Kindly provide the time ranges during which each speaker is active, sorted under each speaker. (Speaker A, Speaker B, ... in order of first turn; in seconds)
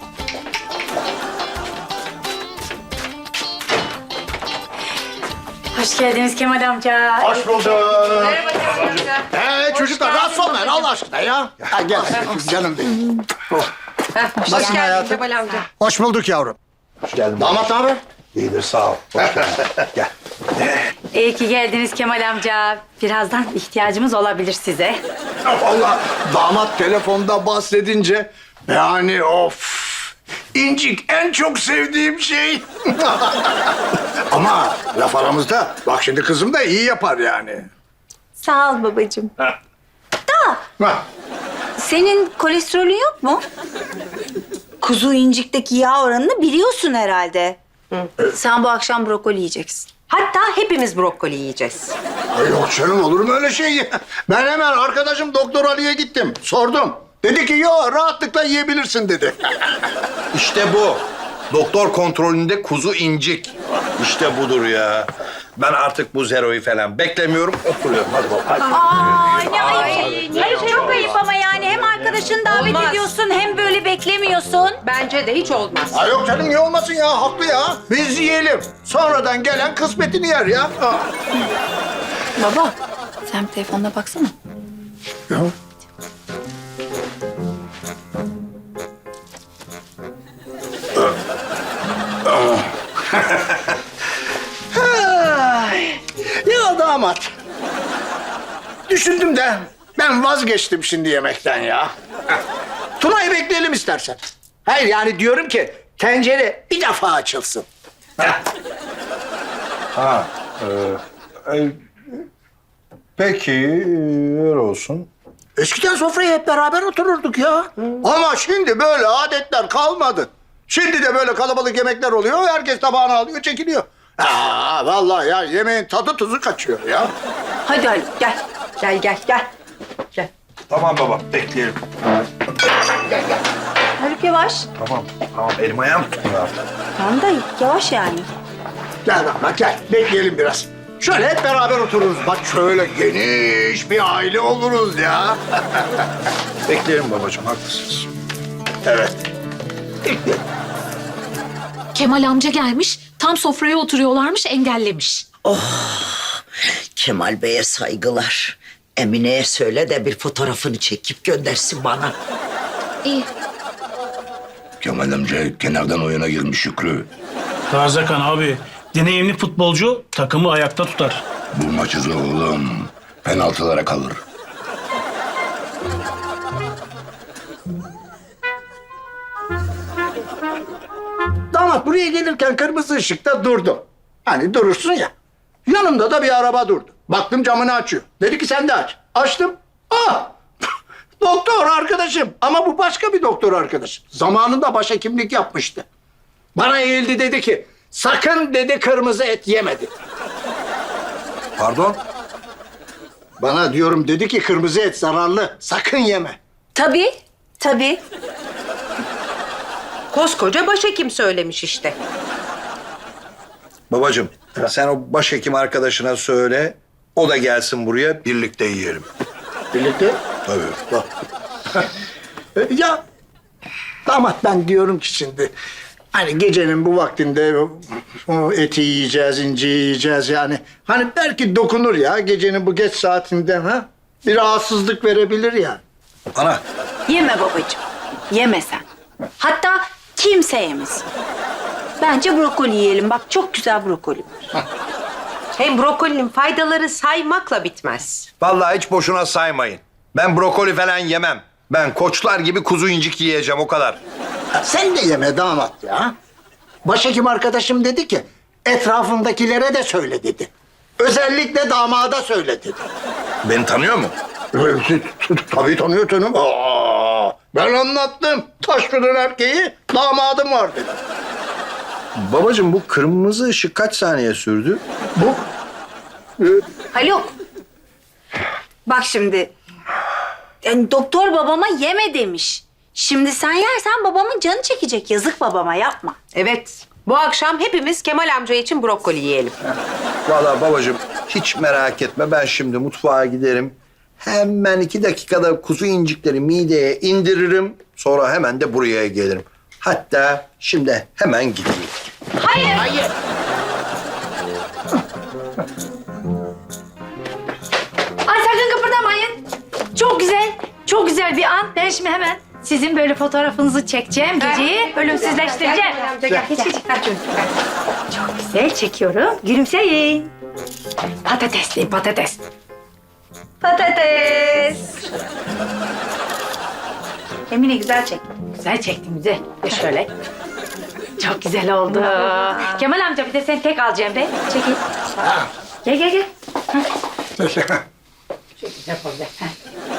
Speaker A: 5.7-7.4, 21.1-25.0, 302.4-302.9, 308.3-309.4, 309.9-316.8, 318.1-320.3, 321.2-322.4, 327.5-330.1, 331.2-334.8, 335.8-336.8, 338.6-339.6
Speaker B: 7.2-8.5, 9.3-13.7, 14.5-15.2, 15.8-16.6, 17.4-18.0, 25.4-33.6, 34.3-37.7, 40.8-41.0, 52.3-59.8, 75.9-81.1, 92.3-92.6, 94.7-97.3, 98.9-101.9, 103.0-107.7, 115.6-127.1, 139.1-146.0, 148.8-149.2, 181.5-185.1, 185.7-190.4, 191.2-195.8, 196.6-199.9, 203.4-206.4, 219.7-220.2, 222.6-223.0, 224.1-225.5, 226.1-235.8, 254.6-256.1, 256.9-262.9, 264.5-271.0, 275.2-275.4, 335.2-335.5, 337.4-337.8
Speaker C: 8.3-10.6, 14.1-15.7, 50.1-51.9, 69.5-71.0, 72.5-73.1, 74.8-76.0, 128.8-129.4, 210.1-212.0, 245.6-248.3, 286.3-289.6, 314.4-317.5
Speaker D: 17.1-17.7, 18.3-20.1, 60.3-71.1, 110.0-111.8, 113.2-115.1, 130.7-131.8, 134.8-136.6, 146.7-148.1, 201.6-202.0, 213.9-219.1, 220.5-220.8, 236.3-236.6, 248.4-254.0, 263.4-264.1, 272.2-274.8, 290.3-301.9
Speaker E: 38.4-39.3, 40.3-40.6, 41.8-43.4, 44.8-47.6, 48.3-49.9, 68.7-74.8, 82.4-82.7, 83.3-84.3, 127.7-128.4, 134.0-134.7, 137.0-138.3, 206.8-208.0, 237.1-238.8, 239.4-241.1, 242.0-244.5, 276.9-277.3, 278.9-279.5, 280.6-286.2, 323.6-324.9
Speaker F: 151.9-155.3
Speaker G: 155.4-156.3, 157.0-162.1
Speaker H: 164.8-167.1, 171.5-174.2
Speaker I: 167.7-171.2